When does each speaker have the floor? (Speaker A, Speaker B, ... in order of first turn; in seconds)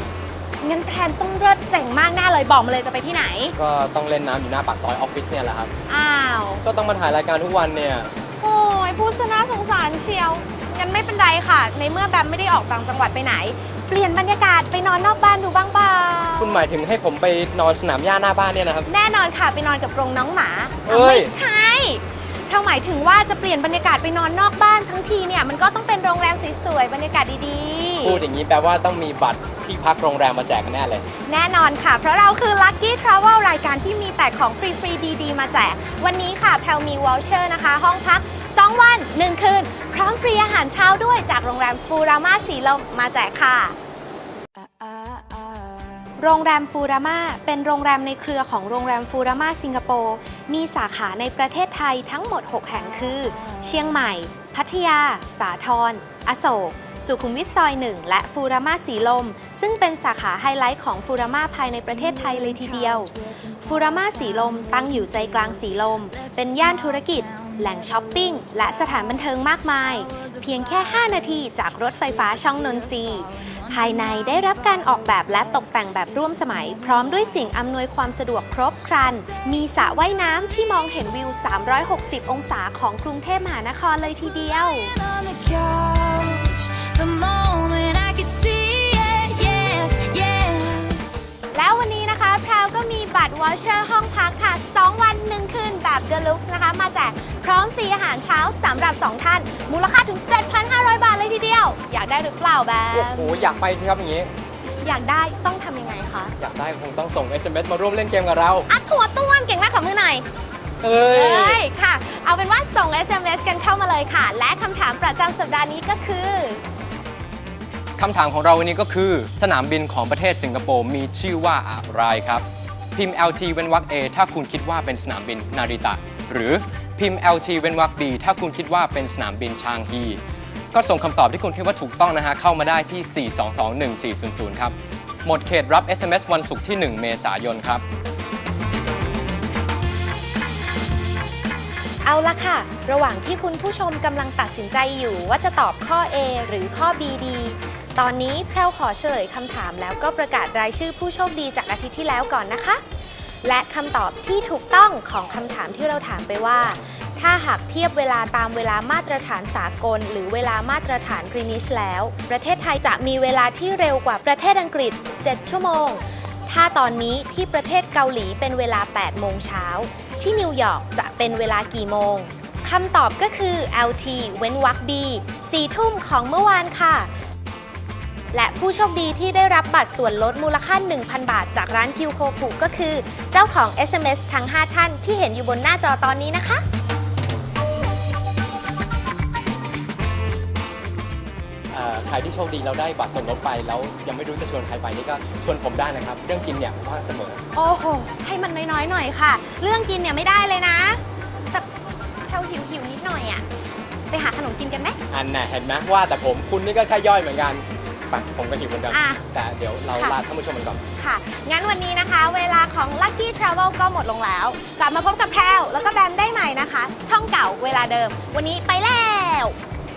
Speaker A: 0.6-3.5, 5.9-6.6, 8.4-16.6, 18.9-28.2, 31.3-43.8, 46.2-85.0, 91.5-103.4, 104.8-106.3, 108.7-110.3, 111.0-116.6, 142.0-152.8, 153.4-177.1, 178.3-186.7, 197.5-201.7, 202.3-203.4, 204.1-205.0, 208.9-209.2, 211.0-219.6
Speaker B: 3.6-5.7, 6.6-8.1, 16.4-18.9, 20.9-21.4, 28.0-31.1, 102.9-104.3, 106.4-108.7, 110.8-111.7, 118.0-130.2, 130.7-137.8, 191.7-197.4, 205.1-210.8
Speaker C: 44.9-45.4, 85.0-90.5